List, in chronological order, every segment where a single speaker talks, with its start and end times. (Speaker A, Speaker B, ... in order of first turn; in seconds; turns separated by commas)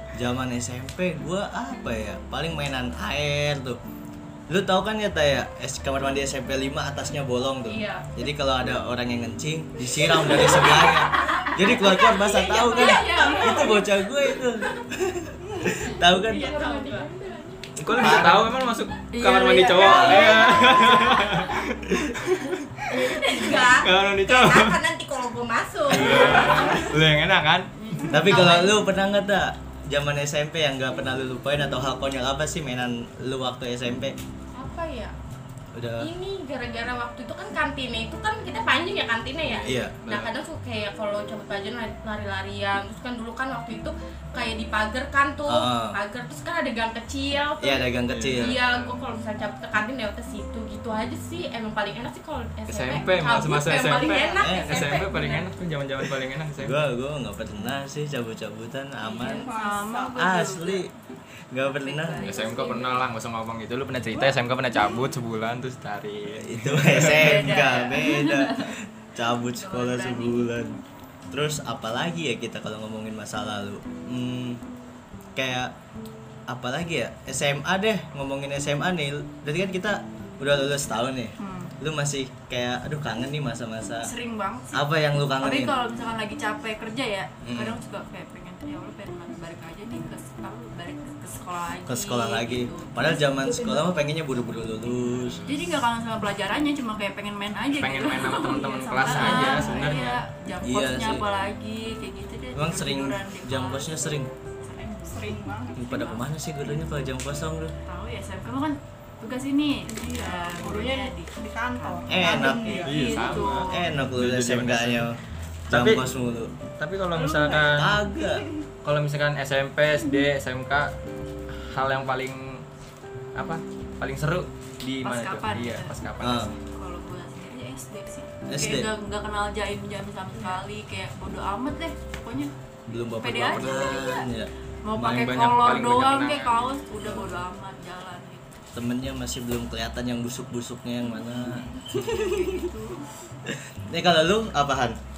Speaker A: 0.1-3.8, Speaker A: 4.5-16.7, Speaker B: 7.7-8.1, Speaker C: 10.5-13.9, Speaker B: 11.2-13.8, Speaker B: 16.3-17.7, Speaker C: 16.3-17.1, Speaker D: 17.8-22.7, Speaker A: 17.9-18.5, Speaker C: 19.1-21.5, Speaker A: 19.9-20.3, Speaker B: 20.0-21.5, Speaker B: 22.9-26.9, Speaker C: 22.9-23.5, Speaker D: 23.5-24.8, Speaker D: 25.9-27.7, Speaker C: 26.0-26.9, Speaker C: 27.8-28.8, Speaker A: 28.1-34.2, Speaker B: 34.5-35.1, Speaker A: 35.7-36.1, Speaker B: 36.0-55.5, Speaker D: 39.5-40.3, Speaker A: 39.6-40.0, Speaker A: 45.5-46.0, Speaker A: 47.6-48.6, Speaker D: 48.1-49.0, Speaker D: 52.7-56.8, Speaker A: 54.4-54.9, Speaker A: 56.6-59.5, Speaker C: 59.0-60.9, Speaker E: 59.2-60.2, Speaker A: 60.2-60.9, Speaker A: 61.5-62.2, Speaker C: 61.7-63.0, Speaker D: 62.2-67.5, Speaker A: 66.3-70.8, Speaker C: 67.0-68.8, Speaker C: 69.5-70.5, Speaker A: 71.3-74.6, Speaker A: 75.4-75.7, Speaker A: 76.5-84.1, Speaker C: 81.4-81.7, Speaker C: 84.0-92.9, Speaker A: 84.7-85.8, Speaker A: 87.4-87.8, Speaker A: 91.8-95.4, Speaker C: 95.5-104.0, Speaker D: 97.7-100.2, Speaker E: 99.3-99.6, Speaker A: 100.6-101.3, Speaker A: 102.5-104.3, Speaker C: 104.6-105.4, Speaker E: 105.1-106.2, Speaker A: 105.8-107.7, Speaker C: 107.9-113.8, Speaker E: 109.9-113.3, Speaker A: 112.1-112.9, Speaker D: 112.8-115.1, Speaker A: 113.5-115.2, Speaker D: 115.7-116.0, Speaker A: 115.7-116.5, Speaker D: 116.8-118.0, Speaker E: 117.2-118.6, Speaker A: 117.7-118.5, Speaker D: 118.8-120.9, Speaker D: 121.5-122.6, Speaker D: 123.3-126.5, Speaker C: 125.0-125.9, Speaker A: 126.2-126.6, Speaker C: 126.6-132.5, Speaker A: 128.5-128.9, Speaker A: 132.9-134.5, Speaker C: 133.2-134.3, Speaker C: 134.8-138.6, Speaker D: 135.0-136.7, Speaker A: 137.0-137.4, Speaker A: 138.8-142.5, Speaker C: 141.9-143.1, Speaker A: 143.5-145.0